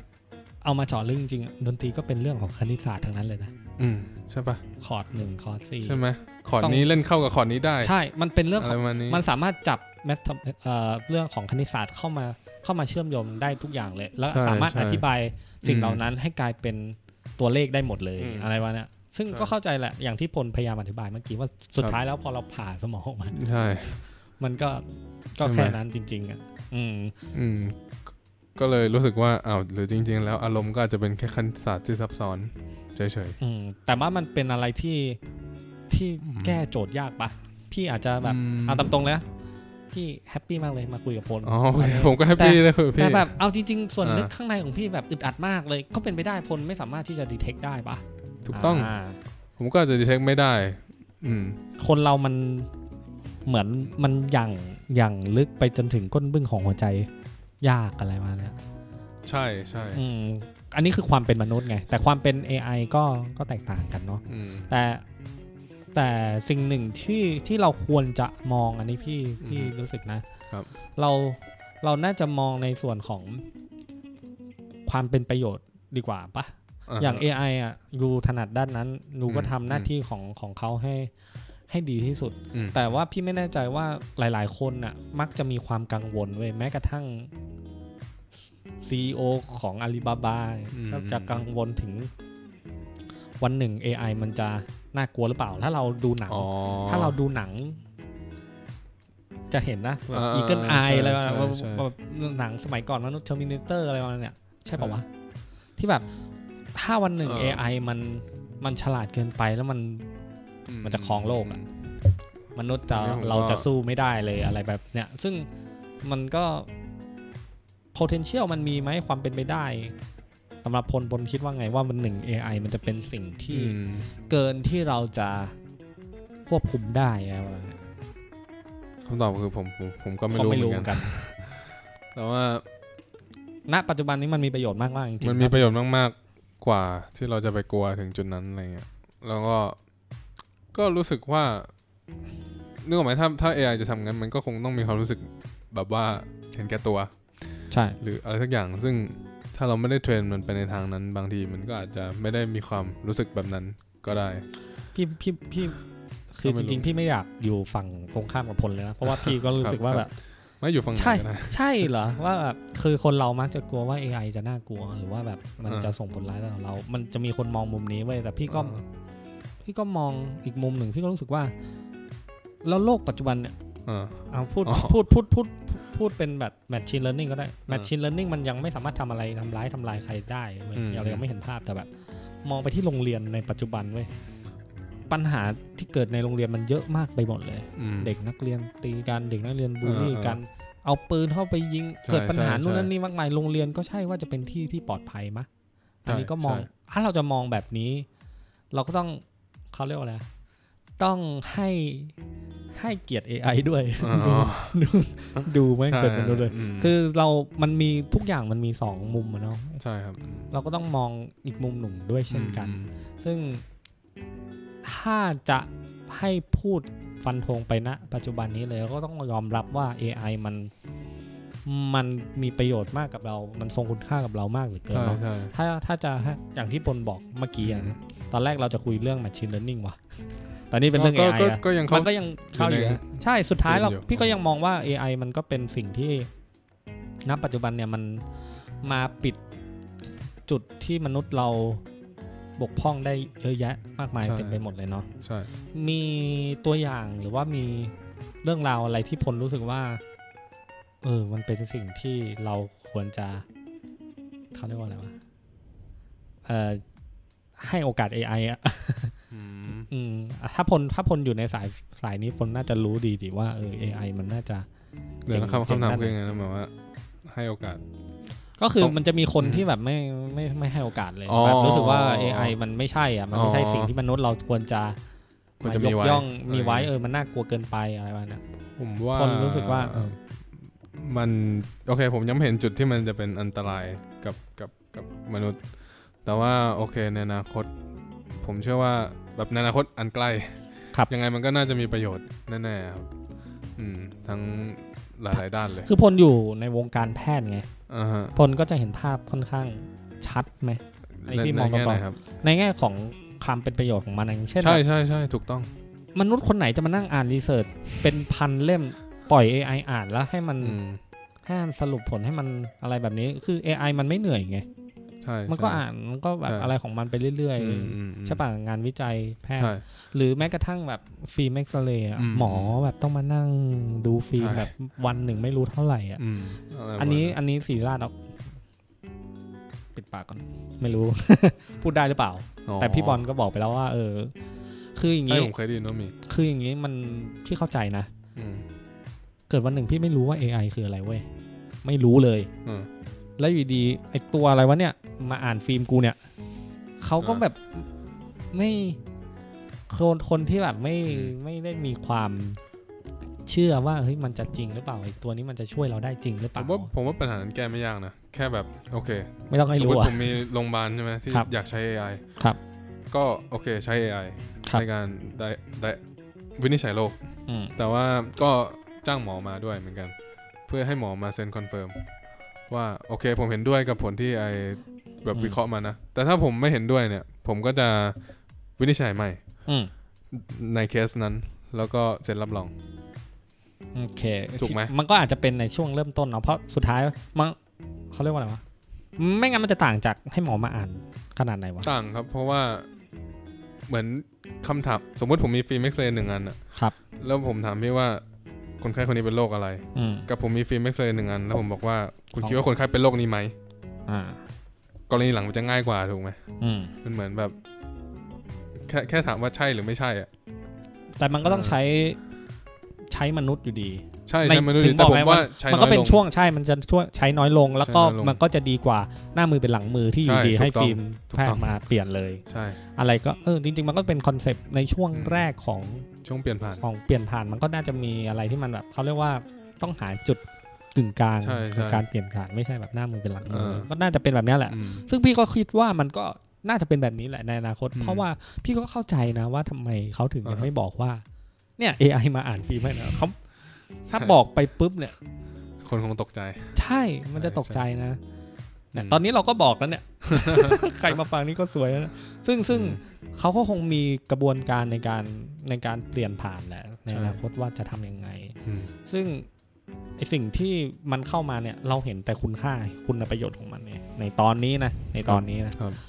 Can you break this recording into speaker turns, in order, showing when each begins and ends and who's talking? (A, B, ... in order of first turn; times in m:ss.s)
0:00.6-0:03.5 A
0:03.8-0:04.6 B
0:04.8-0:06.0 A
0:05.8-0:07.9 B
0:06.6-0:06.9 A
0:07.8-0:23.4 A
0:08.6-0:09.2 B
0:14.3-0:15.1 B
0:15.6-0:16.0 B
0:18.2-0:18.5 B
0:23.3-0:24.0 B
0:24.4-0:27.1 A
0:25.4-0:25.8 B
0:27.3-0:27.8 B
0:28.6-0:33.4 B
0:33.4-0:35.2 A
0:35.9-0:39.3 A
0:36.2-0:36.6 B
0:38.2-0:38.9 B
0:39.9-0:49.2 A
0:41.4-0:43.3 B
0:44.0-0:44.3 B
0:48.5-0:48.9 B
0:49.6-0:51.6 B
0:51.8-0:52.7 A
0:53.5-0:57.1 A
0:57.6-0:58.6 A
0:59.3-1:00.0 B
0:59.9-1:05.0 A
1:04.3-1:04.7 B
1:05.9-1:10.2 A
1:09.4-1:09.7 B
1:11.0-1:13.4 A
1:14.9-1:21.1 A
1:16.9-1:17.3 B
1:19.3-1:19.9 B
1:21.7-1:27.3 A
1:22.5-1:22.9 B
1:28.8-1:32.1 A
1:30.7-1:31.4 B
1:33.4-1:37.8 A
1:36.3-1:37.2 B
1:39.5-1:45.1 A
1:40.1-1:41.9 B
1:45.8-1:46.1 A
1:46.8-1:50.1 A
1:47.2-1:47.6 B
1:50.7-1:51.7 B
1:50.8-1:51.6 A
1:52.6-1:55.5 A
1:52.9-1:53.7 B
1:56.0-1:56.7 A
1:57.9-2:00.0 A
2:00.6-2:03.8 A
2:03.5-2:04.1 B
2:04.3-2:05.6 A
2:06.5-2:07.8 A
2:09.0-2:12.6 B
2:10.3-2:11.2 A
2:13.7-2:15.6 A
2:15.2-2:19.8 B
2:20.7-2:21.7 B
2:22.8-2:27.2 B
2:27.7-2:28.0 A
2:28.0-2:34.4 B
2:35.0-2:35.8 A
2:36.3-2:40.1 A
2:36.4-2:36.9 B
2:39.0-2:40.1 B
2:40.6-2:41.6 B
2:41.0-2:48.8 A
2:45.7-2:45.9 B
2:48.5-2:48.8 B
2:49.6-2:51.5 A
2:52.6-2:53.5 A
2:53.9-2:55.0 B
2:54.3-3:01.9 A
3:00.8-3:01.2 B
3:02.4-3:04.1 A
3:05.1-3:15.5 A
3:07.8-3:08.1 B
3:09.8-3:10.4 B
3:12.0-3:12.9 B
3:16.0-3:18.1 A
3:16.1-3:16.7 B
3:18.7-3:20.3 A
3:21.0-3:22.2 A
3:22.7-3:29.8 A
3:24.0-3:24.8 B
3:25.4-3:26.9 B
3:29.8-3:30.5 B
3:30.5-3:33.6 A
3:32.3-3:32.9 B
3:34.8-3:40.7 A
3:41.7-3:50.0 A
3:44.9-3:45.5 B
3:47.6-3:48.0 B
3:50.7-3:56.3 A
3:50.9-3:53.1 B
3:53.6-3:54.3 B
3:57.3-3:58.2 A
3:58.8-3:59.4 A
4:00.5-4:01.8 A
4:02.6-4:05.1 A
4:04.2-4:04.6 B
4:05.2-4:05.5 B
4:05.7-4:10.0 A
4:11.0-4:13.4 A
4:14.5-4:15.1 A
4:16.5-4:16.8 A
4:17.6-4:19.2 A
4:19.3-4:19.9 B
4:19.9-4:24.7 A
4:25.2-4:26.7 B
4:25.3-4:26.1 A
4:27.2-4:27.8 B
4:28.6-4:35.0 A
4:28.8-4:29.7 B
4:31.3-4:32.6 B
4:33.3-4:33.9 B
4:35.6-4:36.9 B
4:35.6-4:38.4 A
4:38.8-4:40.2 B
4:39.1-4:40.2 A
4:41.0-4:45.6 B
4:46.2-4:47.7 B
4:48.4-4:53.1 B
4:53.8-4:55.9 B
4:55.3-4:57.7 A
4:57.9-4:58.4 B
4:58.4-5:04.8 A
5:01.2-5:02.2 B
5:04.6-5:05.7 B
5:06.2-5:10.8 A
5:10.6-5:11.0 B
5:11.5-5:14.7 A
5:15.2-5:15.8 B
5:15.5-5:26.2 A
5:16.5-5:16.7 B
5:17.6-5:18.4 B
5:19.6-5:19.8 B
5:22.2-5:22.8 B
5:24.4-5:24.7 B
5:26.2-5:27.4 B
5:27.0-5:28.2 A
5:30.0-5:34.3 A
5:32.7-5:33.3 B
5:35.0-5:35.5 A
5:35.3-5:36.2 B
5:36.2-5:38.1 A
5:38.4-5:38.7 B
5:39.5-5:41.2 A
5:41.8-5:42.5 A
5:42.6-5:42.9 B
5:43.4-5:46.2 A
5:47.0-5:47.9 A
5:48.5-5:49.0 A
5:49.9-5:52.6 A
5:51.1-5:51.3 B
5:53.5-5:56.9 A
5:56.6-6:02.2 B
5:59.5-6:00.4 A
6:03.1-6:06.0 B
6:06.6-6:07.2 B
6:07.5-6:07.7 A
6:07.8-6:10.1 B
6:10.7-6:12.0 B
6:12.7-6:18.2 B
6:15.3-6:15.6 A
6:18.8-6:19.4 B
6:19.7-6:19.9 A
6:20.3-6:22.7 B
6:24.0-6:27.6 A
6:24.6-6:24.9 B
6:28.1-6:28.6 A
6:29.2-6:31.9 A
6:31.8-6:32.9 B
6:33.9-6:36.6 B
6:37.2-6:38.2 B
6:38.8-6:43.6 B
6:40.0-6:40.3 A
6:44.1-6:44.4 A
6:45.1-6:46.4 B
6:46.6-6:47.0 A
6:47.0-6:47.6 B
6:48.8-6:50.3 B
6:51.2-6:52.2 A
6:51.4-6:51.8 B
6:53.1-7:02.4 A
6:54.3-6:56.3 B
6:57.8-6:58.4 B
7:00.2-7:01.7 B
7:02.5-7:02.8 B
7:03.0-7:06.1 A
7:05.1-7:05.5 B
7:06.2-7:06.8 B
7:06.8-7:10.4 A
7:10.9-7:21.2 A
7:11.4-7:12.0 B
7:13.5-7:13.9 B
7:14.7-7:15.0 B
7:18.0-7:18.3 B
7:21.8-7:23.4 A
7:24.0-7:25.1 A
7:25.8-7:26.8 B
7:26.8-7:28.2 A
7:27.4-7:27.8 B
7:28.9-7:39.5 A
7:29.0-7:29.2 B
7:30.2-7:30.9 B
7:32.7-7:33.0 B
7:37.1-7:37.4 B
7:38.6-7:38.9 B
7:40.2-7:45.8 A
7:45.2-7:46.0 B